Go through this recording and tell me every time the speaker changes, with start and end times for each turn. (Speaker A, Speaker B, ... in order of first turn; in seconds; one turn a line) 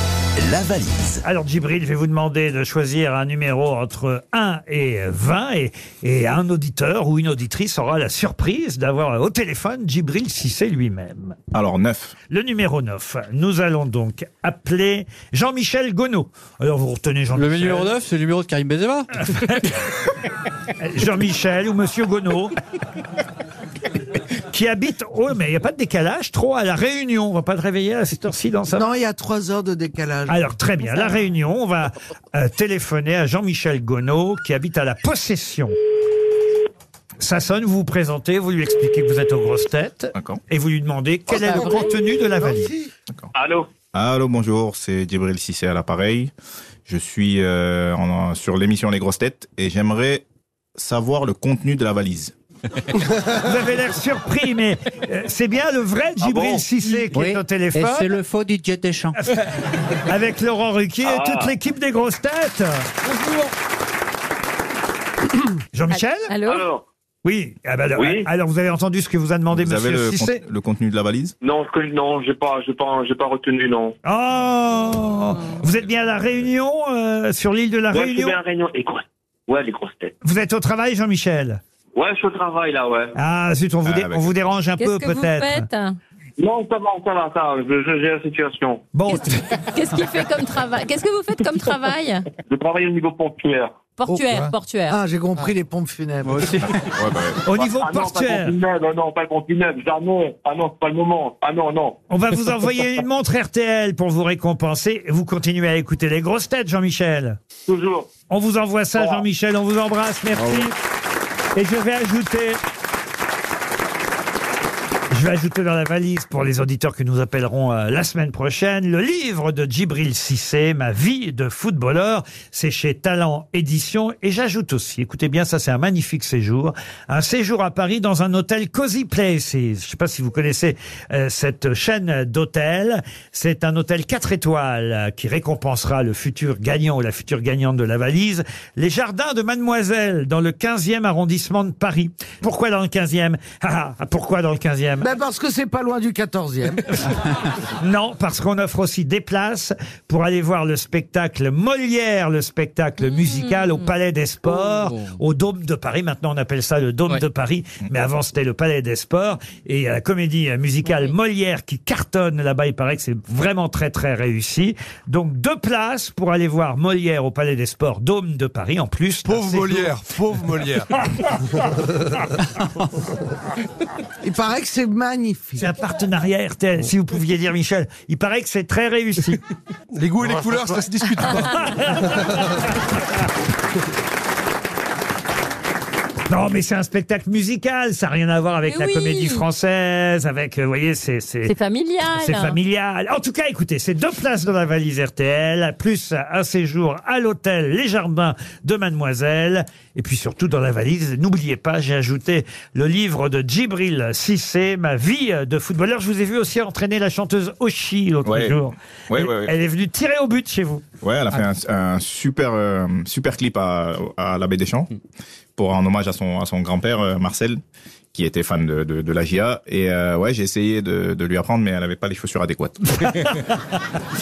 Speaker A: 0.4-1.1
Speaker B: 0.5-1.0
Speaker C: 1.2-11.4
Speaker B: 11.5-12.2
Speaker C: 12.3-17.9
Speaker D: 17.3-19.5
Speaker C: 19.2-19.8
Speaker C: 20.8-22.5
Speaker C: 24.3-28.9
Speaker E: 28.7-30.5
Speaker C: 30.3-35.7
Speaker C: 37.2-42.7
Speaker E: 41.4-41.8
Speaker E: 42.5-42.9
Speaker A: 43.3-43.7
Speaker B: 43.9-46.3
Speaker B: 46.9-52.3
Speaker C: 53.3-58.1
Speaker A: 56.2-56.6
Speaker D: 57.1-59.2
Speaker C: 59.2-62.9
Speaker A: 61.0-61.6
Speaker C: 65.7-66.3
Speaker F: 65.9-66.7
Speaker A: 66.5-66.8
Speaker C: 67.2-70.4
Speaker A: 67.9-68.3
Speaker B: 69.5-71.3
Speaker A: 71.4-73.9
Speaker C: 74.0-78.4
Speaker A: 77.9-80.1
Speaker C: 80.2-81.6
Speaker A: 81.9-83.2
Speaker C: 83.2-85.7
Speaker B: 83.8-84.3
Speaker F: 84.8-86.0
Speaker A: 86.4-88.8
Speaker C: 88.9-89.6
Speaker F: 89.1-92.3
Speaker A: 92.4-93.9
Speaker F: 94.0-95.0
Speaker E: 94.1-94.3
Speaker E: 94.9-96.6
Speaker D: 96.2-96.8
Speaker B: 96.6-97.5
Speaker C: 97.4-98.5
Speaker A: 97.5-102.0
Speaker C: 102.1-107.4
Speaker A: 107.7-108.1
Speaker C: 108.3-110.7
Speaker A: 109.0-109.3
Speaker C: 111.5-112.6
Speaker C: 115.1-145.1
Speaker E: 145.0-147.1
Speaker C: 146.9-169.9
Speaker F: 153.1-153.7
Speaker G: 169.2-171.1
Speaker E: 174.2-175.7
Speaker C: 175.6-179.4
Speaker G: 179.9-182.5
Speaker C: 186.3-191.5
Speaker F: 188.7-189.4
Speaker F: 191.4-192.6
Speaker C: 192.1-210.8
Speaker B: 208.2-209.5
Speaker B: 211.0-214.9
Speaker B: 215.6-217.6
Speaker B: 218.1-223.4
Speaker C: 223.3-223.7